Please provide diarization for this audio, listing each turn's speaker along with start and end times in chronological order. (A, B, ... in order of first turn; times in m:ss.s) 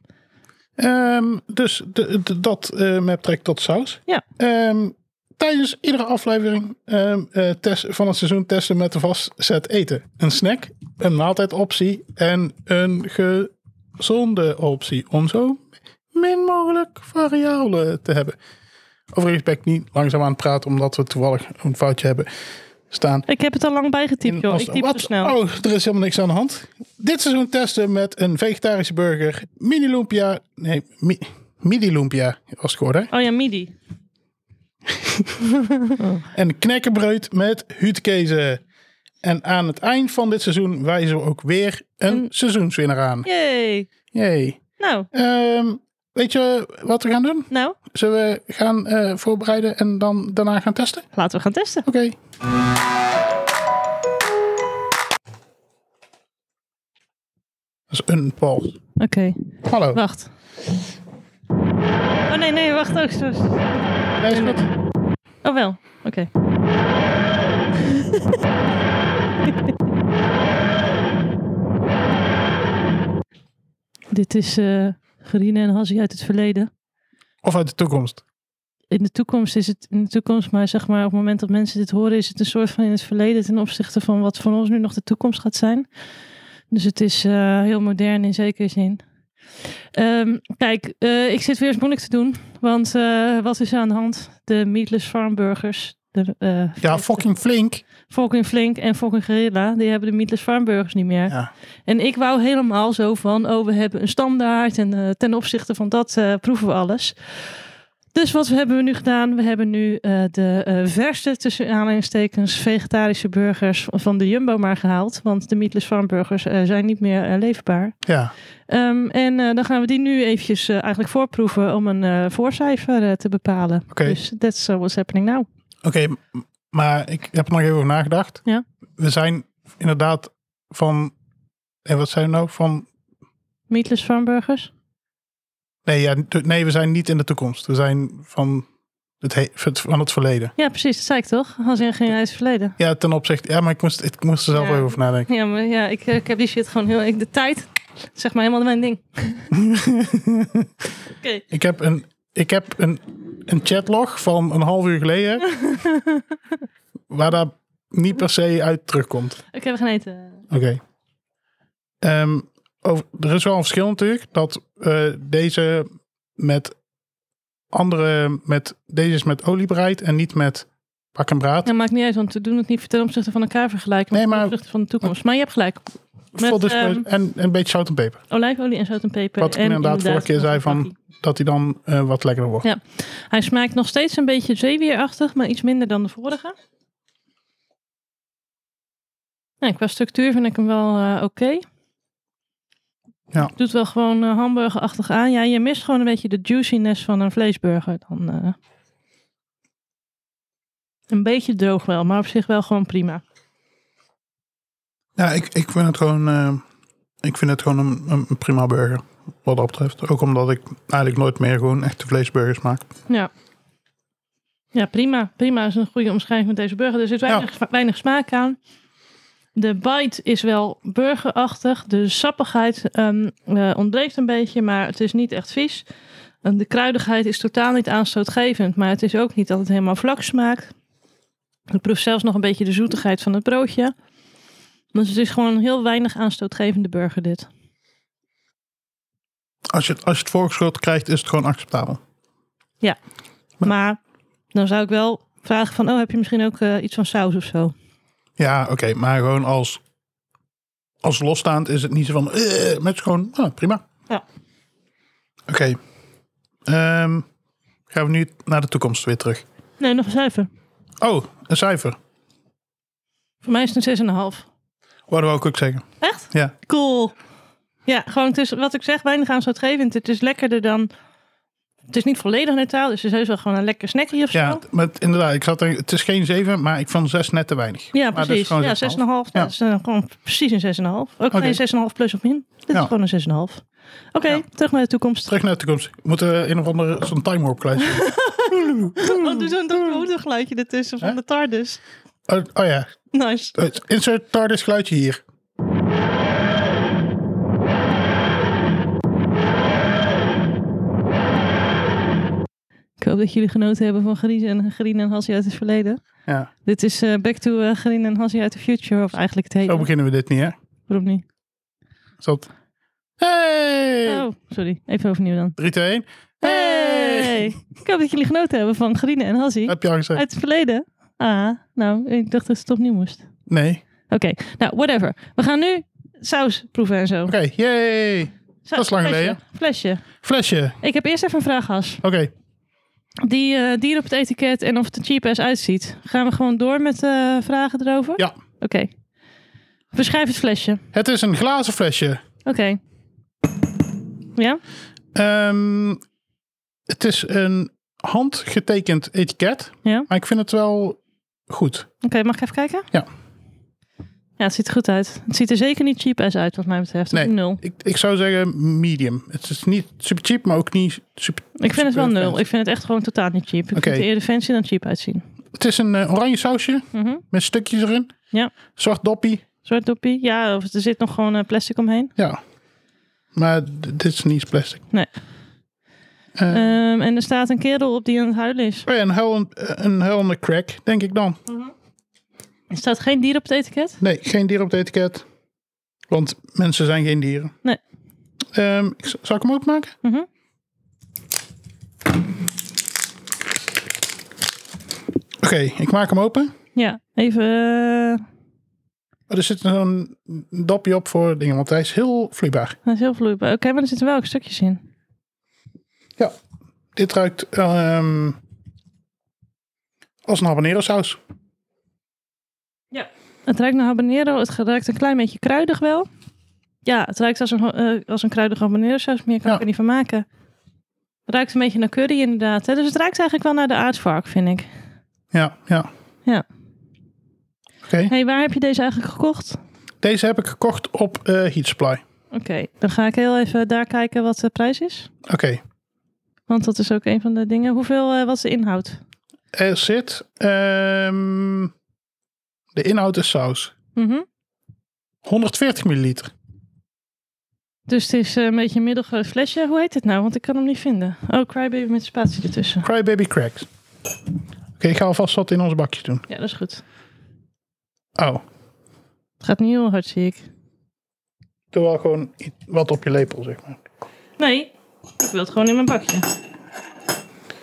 0:00.8-0:18.4 A
0:19.1-0:22.3 A
0:22.9-0:23.3 A
0:23.3-0:25.3 B
0:24.3-0:33.1 A
0:33.1-0:33.7 B
0:34.9-0:35.4 A
0:35.9-0:36.2 B
0:36.3-0:38.6 A
0:39.2-0:43.3 A
0:43.2-0:43.9 B
0:44.1-0:44.6 A
0:44.8-0:45.1 B
0:45.1-0:51.1 A
0:47.5-0:47.8 B
0:51.1-0:51.8 B
0:51.8-0:52.2 A
0:57.9-0:58.8 A
0:59.0-1:00.3 B
0:59.7-1:00.0 A
1:02.3-1:04.7 B
1:04.2-1:04.7 A
1:05.4-1:06.3 B
1:07.9-1:08.2 B
1:14.1-1:16.7 B
1:17.4-1:18.2 A
1:18.9-1:25.9 B
1:26.7-1:29.0 B
1:29.9-1:37.2 B
1:36.8-1:37.8 A
1:38.1-1:41.4 B
1:41.9-1:47.5 B
1:48.1-1:58.0 B
1:58.0-1:58.3 A
1:58.7-2:05.5 B
2:03.9-2:04.2 A
2:05.8-2:08.4 A
2:09.0-2:11.1 A
2:11.8-2:12.9 A
2:13.7-2:14.7 B
2:15.9-2:18.7 A
2:19.2-2:20.5 A
2:20.6-2:22.8 B
2:22.8-2:25.3 A
2:24.5-2:29.6 B
2:29.5-2:30.7 A
2:31.2-2:31.4 B
2:31.5-2:35.5 A
2:35.4-2:36.4 B
2:37.1-2:39.4 A
2:39.5-2:40.4 B
2:40.5-2:40.8 A
2:42.0-2:46.8 A
2:47.7-2:51.7 A
2:51.6-2:55.8 B
2:54.1-2:55.0 A
2:56.4-2:58.2 A
2:56.4-2:57.0 B
2:58.3-3:00.9 B
2:59.4-3:02.7 A
3:02.6-3:06.6 B
3:09.6-3:11.6 B
3:13.4-3:18.6 B
3:21.1-3:23.2 B
3:25.2-3:26.6 A
3:27.2-3:32.9 A
3:34.7-3:38.6 B
3:39.6-3:45.8 B
3:46.4-3:50.7 B
3:51.7-3:53.9 B
3:54.9-3:57.5 B
3:59.7-4:02.0 A
4:03.6-4:04.0 B
4:04.5-4:07.7 B
4:08.4-4:09.8 A
4:11.0-4:13.8 A
4:15.5-4:15.8 A
4:16.7-4:17.3 A
4:17.9-4:19.4 A
4:19.8-4:20.5 B
4:21.0-4:22.0 A
4:23.4-4:24.5 B
4:25.1-4:26.6 A
4:26.0-4:27.1 B
4:27.9-4:30.9 B
4:31.9-4:34.6 B
4:34.3-4:39.5 A
4:37.9-4:45.3 B
4:41.3-4:41.6 A
4:45.3-4:50.0 A
4:47.8-4:51.8 B
4:52.3-4:52.9 A
4:53.1-4:53.6 B
4:53.6-4:55.2 A
5:03.0-5:06.0 B
5:06.6-5:09.9 B
5:09.6-5:10.6 A
5:10.9-5:11.2 B
5:12.2-5:12.5 A
5:13.2-5:14.3 A
5:14.1-5:15.6 B
5:15.6-5:17.5 A
5:16.4-5:23.2 B
5:19.7-5:20.2 A
5:23.5-5:23.8 A
5:24.1-5:27.3 B
5:27.3-5:29.4 A
5:28.7-5:30.1 B
5:30.2-5:30.8 A
5:30.8-5:32.0 B
5:32.0-5:32.3 A
5:33.2-5:38.9 B
5:39.9-5:40.8 B
5:40.9-5:42.2 A
5:42.4-5:42.8 B
5:45.1-5:46.0 A
5:46.9-5:51.9 A
5:52.0-5:52.9 B
5:54.4-5:57.6 B
5:57.1-6:02.4 A
6:01.6-6:05.2 B
6:03.8-6:04.1 A
6:05.6-6:08.1 A
6:06.9-6:07.2 B
6:08.8-6:09.4 A
6:09.6-6:12.1 B
6:13.4-6:14.8 A
6:16.4-6:16.8 A
6:16.5-6:18.9 B
6:18.9-6:21.4 A
6:22.7-6:24.0 B
6:24.0-6:25.2 A
6:26.1-6:27.5 A
6:28.5-6:29.9 A
6:35.4-6:36.5 A
6:36.8-6:38.2 B
6:39.3-6:42.8 A
6:42.8-6:44.8 B
6:47.0-6:48.4 A
6:50.3-6:51.2 A
6:52.9-6:56.1 B
6:56.8-7:00.2 B
7:01.3-7:04.7 B
7:05.3-7:05.9 A
7:07.8-7:08.1 A
7:08.1-7:09.6 B
7:10.0-7:12.0 A
7:12.3-7:15.1 B
7:15.3-7:15.6 A
7:16.5-7:19.0 B
7:19.5-7:21.7 A
7:22.7-7:23.7 A
7:24.0-7:24.2 B
7:25.2-7:26.3 A
7:27.9-7:32.8 B
7:32.8-7:33.7 A
7:34.8-7:36.2 A
7:36.3-7:36.8 B
7:38.2-7:38.4 A
7:39.4-7:40.4 B
7:41.7-7:43.8 A
7:44.4-7:46.3 B